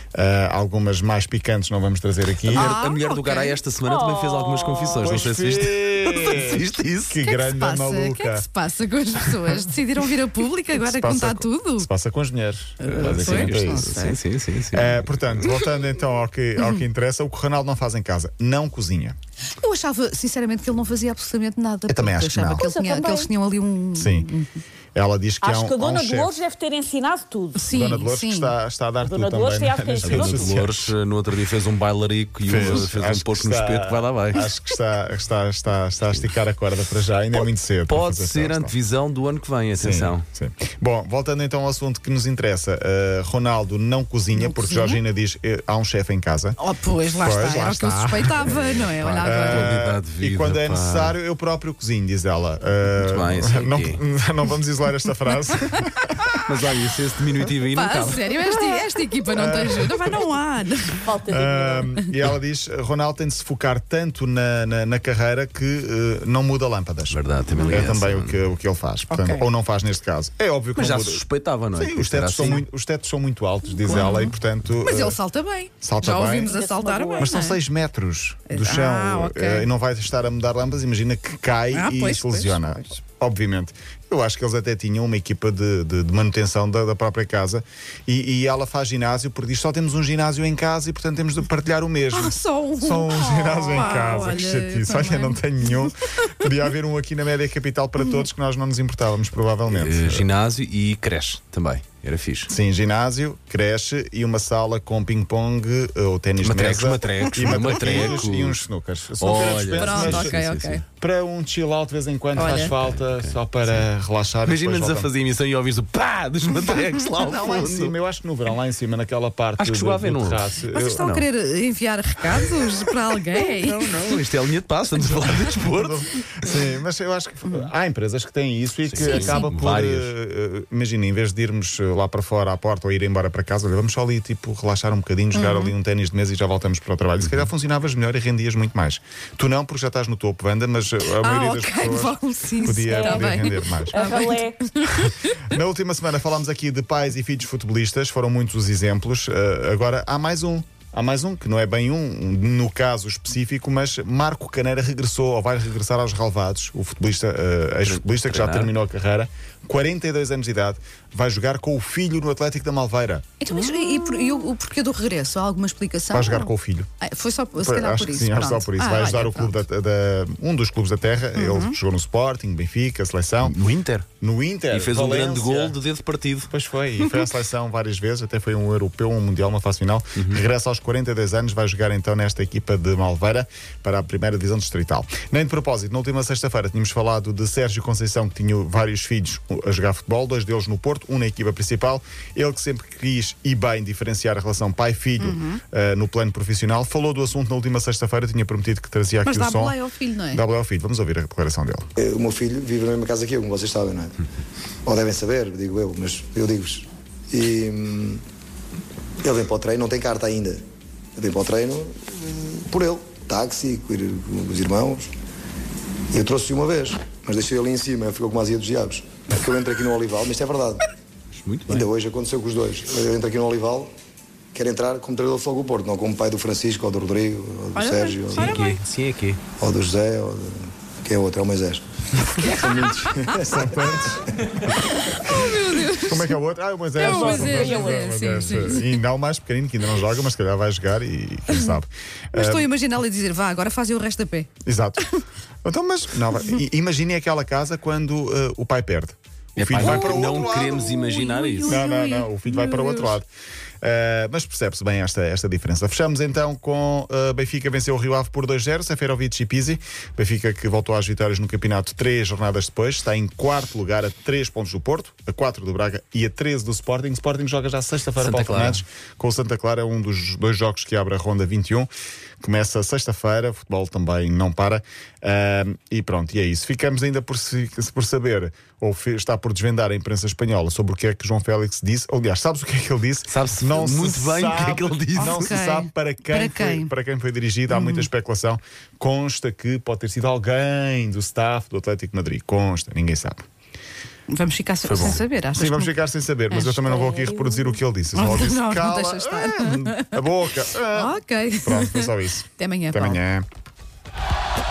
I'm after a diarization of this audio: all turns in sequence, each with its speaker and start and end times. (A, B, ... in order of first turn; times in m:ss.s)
0:00.2-0:02.7 A
0:02.5-0:07.2 B
0:02.5-0:03.6 C
0:03.8-0:05.3 D
0:05.0-0:08.4 A
0:07.2-0:11.9 C
0:10.8-0:13.9 A
0:12.8-0:14.2 C
0:12.9-0:15.5 B
0:14.7-0:19.2 A
0:16.6-0:16.8 C
0:19.6-0:24.6 C
0:21.9-0:22.7 A
0:22.6-0:23.3 D
0:24.0-0:24.3 A
0:25.0-0:26.4 A
0:25.4-0:27.7 D
0:27.6-0:28.6 C
0:27.7-0:30.9 A
0:29.0-0:30.6 D
0:30.0-0:34.4 B
0:32.5-0:38.8 A
0:37.4-0:40.2 B
0:39.8-0:46.6 A
0:44.3-0:45.0 C
0:46.6-0:49.8 C
0:47.2-0:56.4 A
0:48.5-0:51.2 B
0:52.9-0:54.0 B
0:56.4-0:58.3 B
0:57.7-1:01.1 C
0:59.4-1:00.2 A
1:01.0-1:01.9 D
1:01.2-1:15.2 A
1:07.1-1:08.4 B
1:09.1-1:09.5 C
1:10.8-1:12.7 B
1:13.8-1:17.6 C
1:15.8-1:16.6 A
1:16.4-1:17.3 D
1:17.2-1:40.3 A
1:18.5-1:19.7 C
1:21.7-1:23.0 C
1:32.1-1:35.9 C
1:38.0-1:38.2 C
1:39.7-1:42.5 B
1:42.5-1:50.4 A
1:46.4-1:48.6 B
1:47.5-1:48.0 C
1:49.2-1:50.8 B
1:49.7-1:50.8 C
1:51.0-1:55.1 A
1:52.4-1:52.8 C
1:52.4-1:53.9 B
1:54.4-1:57.9 B
1:57.2-2:01.0 A
1:59.6-2:01.3 B
2:00.7-2:03.9 C
2:03.5-2:06.5 B
2:05.7-2:24.0 A
2:08.9-2:10.1 B
2:09.0-2:09.5 C
2:15.3-2:15.7 C
2:21.1-2:25.4 C
2:22.9-2:23.3 D
2:23.9-2:24.7 D
2:25.0-2:43.3 A
2:37.8-2:38.7 B
2:43.4-2:49.6 C
2:46.1-2:46.9 A
2:47.6-2:53.6 A
2:51.4-2:51.8 C
2:53.4-2:54.1 B
2:54.2-2:55.8 A
2:54.7-2:56.5 B
2:56.5-3:19.8 A
3:00.2-3:00.4 B
3:15.2-3:15.6 C
3:19.2-3:20.4 C
3:20.3-3:21.9 A
3:22.0-3:24.2 E
3:24.8-3:28.2 E
3:29.2-3:30.6 E
3:31.2-3:35.1 E
3:36.1-3:40.9 E
3:41.3-3:41.9 B
3:41.7-3:43.9 E
3:44.5-3:48.6 E
3:47.8-3:48.8 C
3:48.3-3:49.4 B
3:49.6-3:53.7 E
3:53.1-3:54.3 A
3:54.7-3:56.4 C
3:55.3-4:02.7 A
3:57.0-3:58.1 D
3:57.0-3:59.0 C
4:01.5-4:01.8 C
4:02.3-4:04.5 C
4:04.6-4:05.1 A
4:05.6-4:11.0 A
4:09.6-4:11.8 B
4:09.8-4:13.2 C
4:11.6-4:13.3 A
4:13.8-4:31.9 A
4:28.2-4:28.8 B
4:32.4-4:53.4 A
4:43.3-4:45.6 B
4:45.2-4:46.9 C
4:47.7-4:48.1 C
4:54.3-4:56.0 C
4:54.8-4:55.2 B
4:55.0-5:03.4 A
4:56.5-4:56.8 C
4:56.8-4:57.8 D
4:58.1-5:00.2 C
5:00.8-5:03.2 C